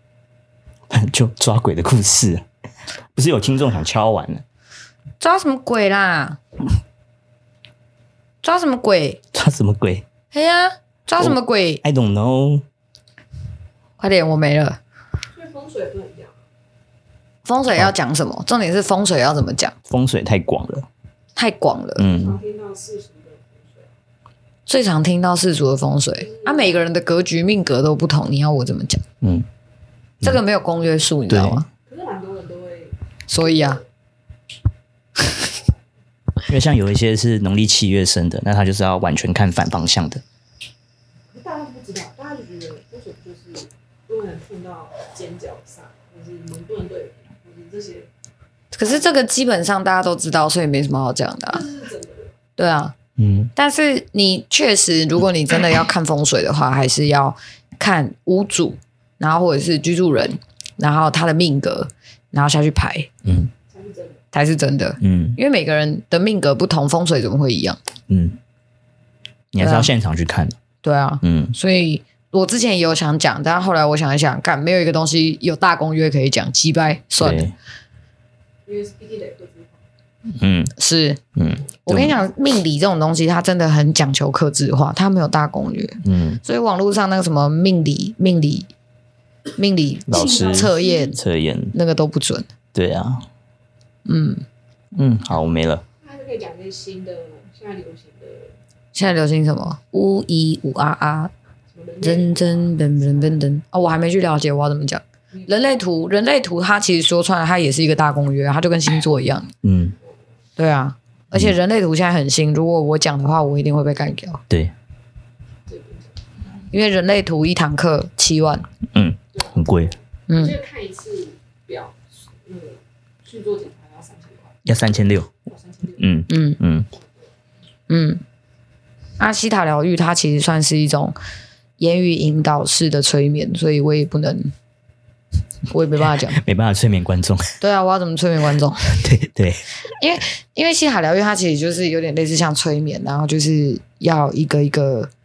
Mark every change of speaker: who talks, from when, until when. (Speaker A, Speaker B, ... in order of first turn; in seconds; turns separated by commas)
Speaker A: 0.9-2.5, Speaker A: 3.1-4.4, Speaker B: 5.2-6.4, Speaker B: 8.4-9.2, Speaker A: 9.3-10.1, Speaker B: 10.3-11.8, Speaker A: 11.2-12.7, Speaker B: 14.0-14.8, Speaker C: 15.3-16.3, Speaker B: 17.4-19.7, Speaker A: 19.9-20.9, Speaker B: 21.4-22.1, Speaker A: 22.0-22.4, Speaker C: 22.1-23.9, Speaker B: 24.7-29.0, Speaker C: 26.2-26.7, Speaker A: 29.2-29.5, Speaker B: 30.2-31.7, Speaker A: 31.3-31.6, Speaker C: 31.9-33.8, Speaker B: 33.3-33.8, Speaker A: 36.5-40.2, Speaker C: 41.3-48.1, Speaker B: 48.7-51.6, Speaker C: 51.5-52.3, Speaker B: 52.6-52.9, Speaker A: 53.2-53.5, Speaker B: 53.6-63.1, Speaker A: 63.2-63.5, Speaker C: 63.7-64.2, Speaker B: 64.3-67.8, Speaker A: 65.0-65.4, Speaker A: 68.1-68.4, Speaker A: 69.5-70.6, Speaker B: 69.6-69.9, Speaker B: 70.8-77.5, Speaker A: 71.2-71.5, Speaker A: 77.2-77.5, Speaker C: 78.7-79.8, Speaker A: 80.4-80.7, Speaker B: 80.8-81.2, Speaker A: 81.4-82.2, Speaker B: 81.9-88.7, Speaker A: 86.0-86.4, Speaker B: 89.6-91.2, Speaker A: 90.1-91.7, Speaker B: 91.7-92.5, Speaker A: 92.7-93.2, Speaker B: 94.1-94.4, Speaker A: 95.0-95.8, Speaker C: 96.0-98.5, Speaker B: 99.0-101.3, Speaker C: 101.7-103.2, Speaker B: 102.0-109.5, Speaker A: 109.6-110.0, Speaker B: 110.6-114.4, Speaker C: 115.7-116.2, Speaker B: 116.7-118.7, Speaker A: 118.9-119.9, Speaker C: 119.3-124.6, Speaker B: 120.3-120.6, Speaker A: 124.7-125.3, Speaker C: 125.5-126.1, Speaker A: 126.0-126.9, Speaker B: 126.3-126.6, Speaker C: 126.9-127.3, Speaker B: 127.9-128.2, Speaker B: 129.2-131.2, Speaker B: 131.8-134.5, Speaker B: 135.7-136.4, Speaker A: 136.3-137.6, Speaker B: 137.6-139.0, Speaker A: 139.0-139.6, Speaker B: 140.0-145.1